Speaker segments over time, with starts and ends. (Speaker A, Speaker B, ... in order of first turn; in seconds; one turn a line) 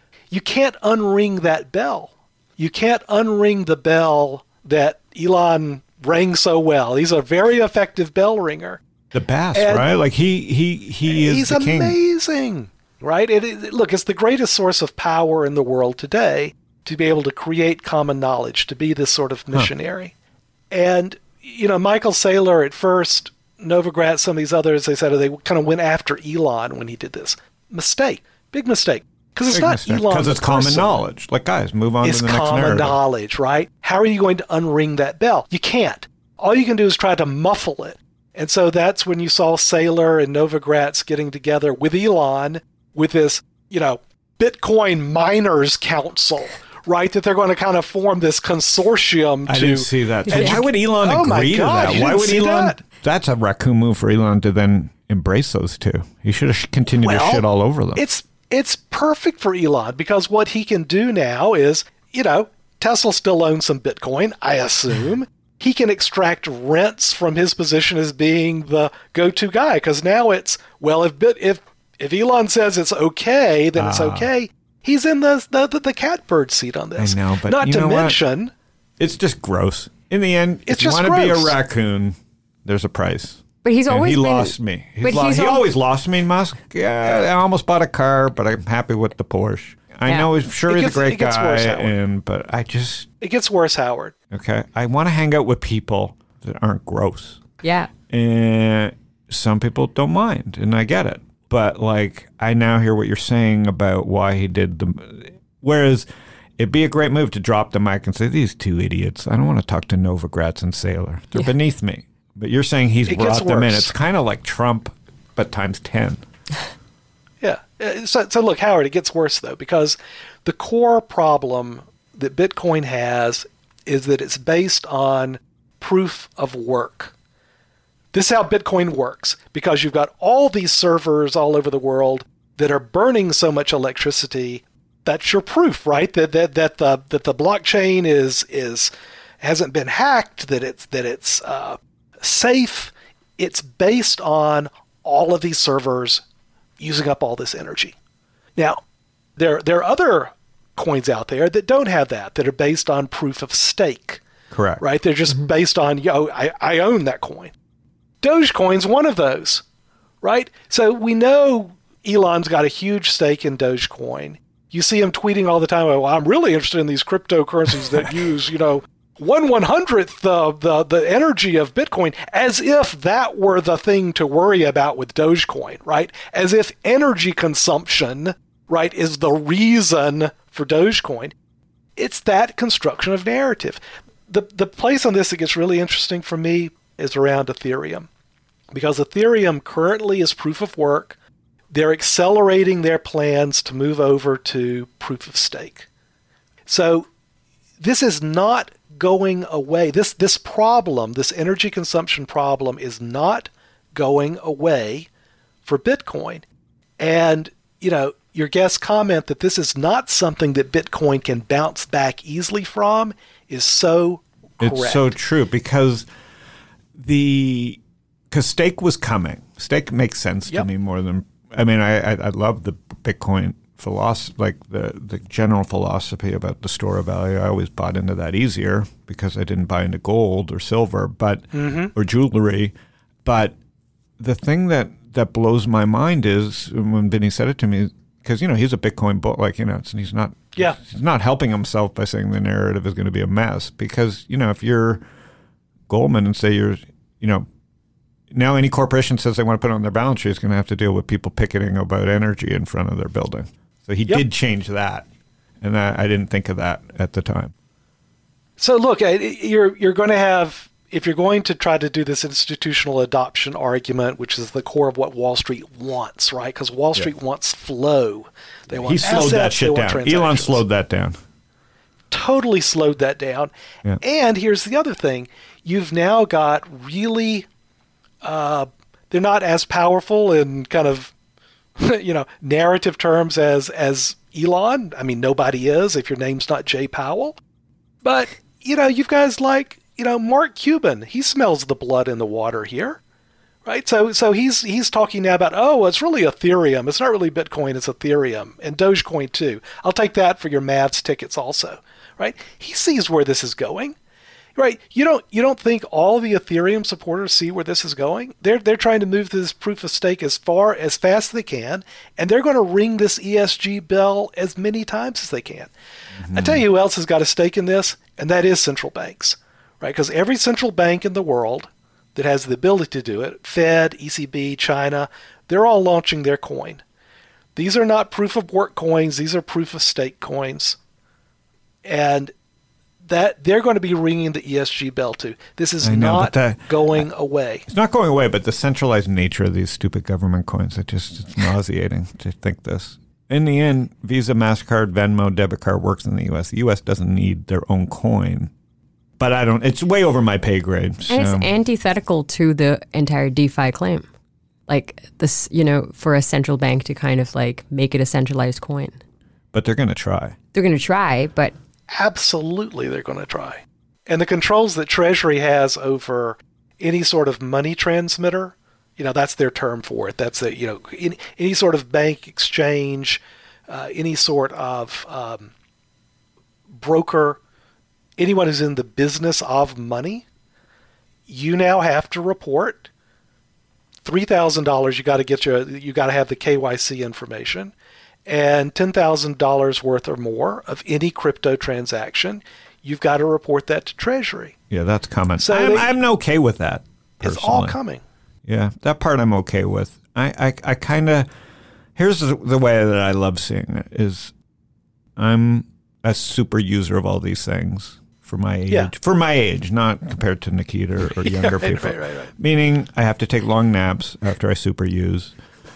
Speaker A: 0.3-8.8
Speaker B: 9.1-11.9
Speaker A: 9.5-9.9
Speaker A: 11.1-20.1
Speaker A: 20.7-31.0
Speaker B: 29.5-33.0
Speaker A: 32.0-52.8
Speaker B: 49.5-58.0
Speaker C: 50.3-50.6
Speaker A: 57.0-57.4
Speaker A: 58.0-78.5
Speaker B: 73.7-74.3
Speaker B: 77.0-78.2
Speaker B: 79.0-93.1
Speaker A: 80.7-81.5
Speaker C: 83.6-85.6
Speaker A: 90.7-91.9
Speaker A: 93.2-94.1
Speaker B: 94.3-97.4
Speaker C: 97.6-97.9
Speaker B: 98.1-106.0
Speaker B: 106.6-116.2
Speaker A: 113.1-113.9
Speaker A: 117.4-127.1
Speaker A: 128.1-146.2
Speaker A: 146.8-147.9
Speaker A: 148.6-148.8
Speaker A: 149.3-154.2
Speaker B: 154.5-154.8
Speaker A: 154.8-157.5
Speaker A: 158.2-159.6
Speaker A: 160.2-181.3
Speaker A: 181.9-188.1
Speaker A: 188.7-191.1
Speaker A: 191.7-195.9
Speaker A: 196.7-197.1
Speaker A: 197.8-205.1
Speaker A: 205.7-206.4
Speaker A: 207.0-215.1
Speaker B: 214.6-216.0
Speaker B: 216.9-217.8
Speaker B: 218.3-232.7
Speaker A: 231.5-231.9
Speaker B: 233.2-233.5
Speaker B: 234.2-245.0
Speaker B: 245.9-247.5
Speaker B: 248.3-255.1
Speaker B: 255.6-257.5
Speaker A: 258.6-270.6
Speaker B: 268.8-271.1
Speaker A: 272.1-277.5
Speaker A: 278.2-281.1
Speaker A: 281.8-287.4
Speaker A: 288.0-293.0
Speaker A: 293.6-303.9
Speaker A: 304.6-315.7
Speaker B: 316.2-316.6
Speaker A: 316.3-326.8
Speaker A: 327.5-330.8
Speaker A: 331.8-332.3
Speaker A: 333.0-337.6
Speaker B: 335.8-337.1
Speaker B: 337.7-348.5
Speaker B: 349.2-351.5
Speaker C: 351.1-354.1
Speaker C: 354.7-358.9
Speaker B: 359.5-360.4
Speaker C: 360.5-361.5
Speaker A: 361.9-375.5
Speaker A: 376.7-377.4
Speaker A: 378.2-380.2
Speaker A: 381.3-382.9
Speaker A: 384.0-387.7
Speaker A: 388.2-394.5
Speaker B: 394.7-397.8
Speaker A: 395.4-395.9
Speaker A: 397.2-398.0
Speaker B: 398.4-401.3
Speaker B: 401.9-404.3
Speaker B: 405.2-415.3
Speaker A: 411.2-412.3